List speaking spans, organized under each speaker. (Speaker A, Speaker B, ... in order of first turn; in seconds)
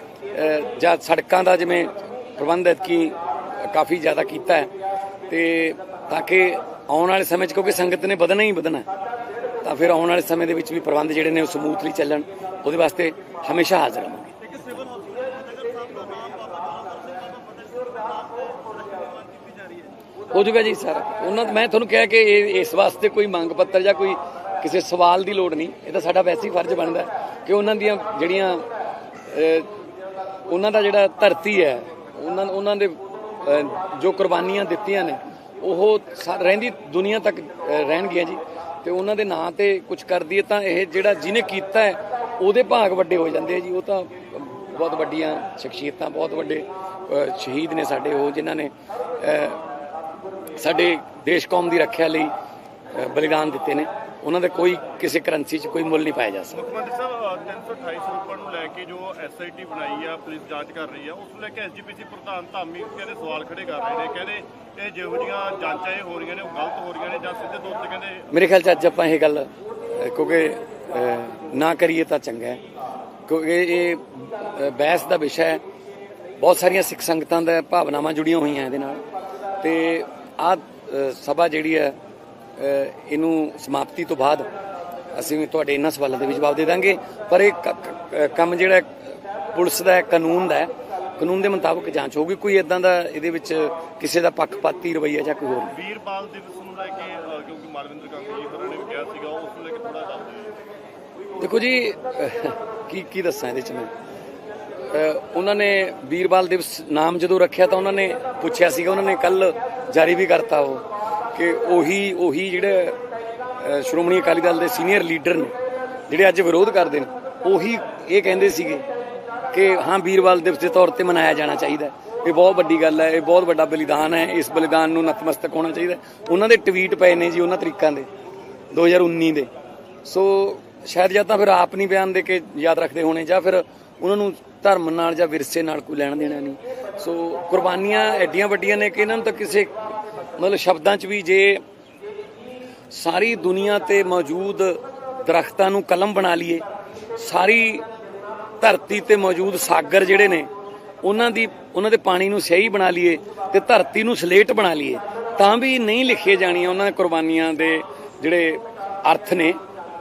Speaker A: 0.3-4.7, 5.3-8.9, 9.6-14.3, 20.3-28.7, 29.3-29.7, 30.5-49.6, 50.6-52.3, 52.9-56.6, 68.3-72.6, 73.3-75.6, 76.4-79.0, 79.6-82.0, 82.6-84.5, 85.1-95.8, 101.4-103.9, 104.8-113.0, 113.6-115.5, 116.1-118.8, 119.5-128.1, 128.7-129.5, 130.1-139.7, 140.4-141.6, 142.9-146.6, 147.2-147.9, 148.6-150.5, 151.0-159.6
Speaker B: 14.4-20.0, 56.5-68.3, 95.7-100.5